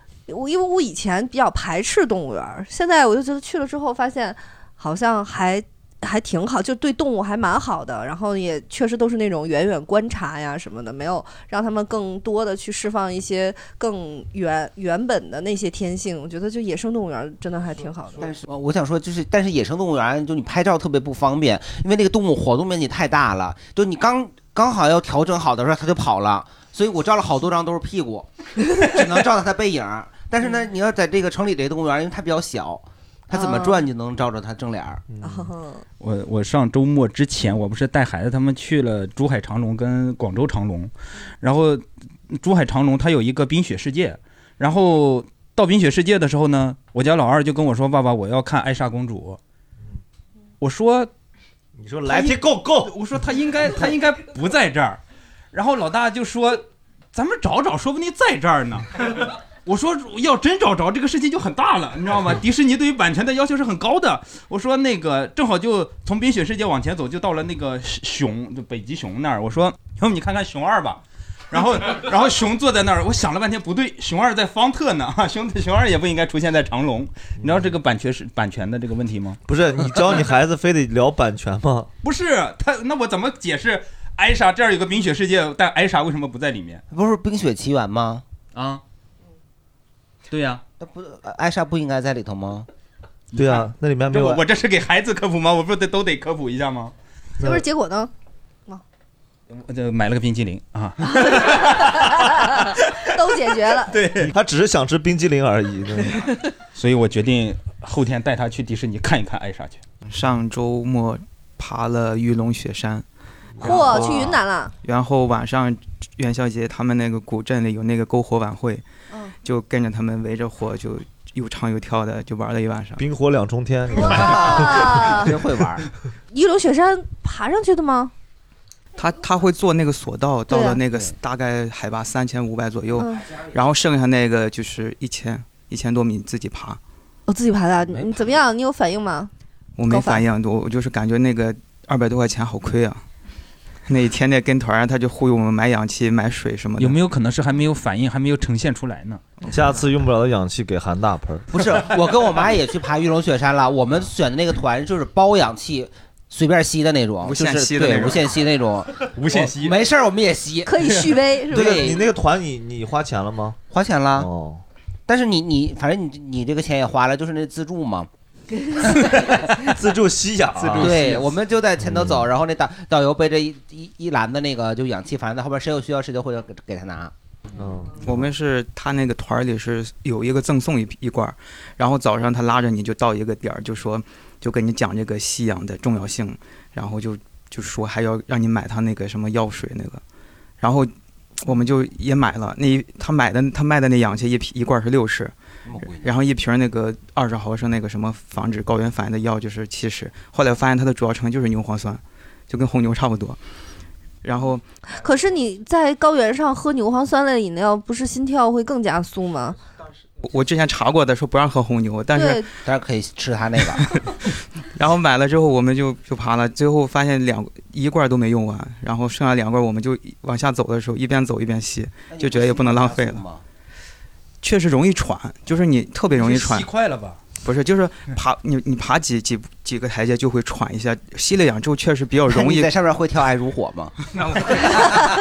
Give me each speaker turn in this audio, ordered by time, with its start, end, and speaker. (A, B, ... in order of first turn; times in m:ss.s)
0:00.3-0:18.3 A
0:18.2-0:28.3 B
0:28.8-0:35.0 B
0:33.3-0:33.8 A
0:35.1-0:35.5 C
0:35.2-0:35.8 A
0:36.0-0:49.4 D
0:50.6-0:51.1 D
0:51.8-0:52.9 C
0:52.1-0:55.0 D
0:55.5-1:19.4 D
1:17.4-1:17.7 C
1:19.5-1:21.9 C
1:22.0-1:26.8 D
1:26.9-1:28.2 B
1:28.5-1:28.8 D
1:30.3-1:30.6 D
1:30.8-1:32.7 B
1:33.3-1:36.9 D
1:33.3-1:34.4 C
1:37.4-1:37.6 C
1:37.4-1:38.1 A
1:39.5-1:42.9 D
1:41.2-1:44.0 A
1:43.8-1:44.3 D
1:44.2-1:46.2 C
1:46.7-1:49.8 D
1:50.1-1:53.0 E
1:53.6-1:53.8 C
1:53.6-1:54.7 A
1:53.6-1:54.2 E
1:54.8-1:58.8 E
1:59.4-2:03.0 E
2:03.0-2:05.0 C
2:04.0-2:05.4 A
2:04.1-2:05.9 B
2:06.3-2:08.1 A
2:09.0-2:16.8 E
2:10.5-2:10.8 A
2:13.0-2:13.2 A
2:17.3-2:19.3 A
2:17.9-2:18.3 B
2:19.8-2:23.0 E
2:19.9-2:20.2 A
2:23.9-2:27.0 E
2:26.8-2:29.2 D
2:29.5-2:31.5 C
2:31.5-2:41.0 B
2:37.2-2:38.3 E
2:39.1-2:39.8 D
2:40.6-2:42.0 A
2:41.5-2:42.0 B
2:41.5-2:43.6 C
2:43.7-2:44.3 B
2:44.2-2:44.6 C
2:45.1-2:48.1 B
2:49.0-2:49.5 B
2:49.6-2:51.2 C
2:50.7-2:57.1 B
2:51.8-2:52.3 C
2:57.6-2:58.2 C
2:58.0-3:10.0 E
3:10.6-3:10.9 E
3:11.4-3:23.4 E
3:15.6-3:16.1 B
3:24.2-3:24.6 E
3:24.9-3:29.6 A
3:30.2-3:32.4 E
3:32.1-3:32.5 A
3:32.6-3:33.9 B
3:34.7-3:43.2 E
3:42.1-3:43.4 B
3:44.4-3:46.7 E
3:46.1-3:47.2 D
3:47.4-3:52.7 E
3:52.2-3:53.9 B
3:54.7-3:55.0 A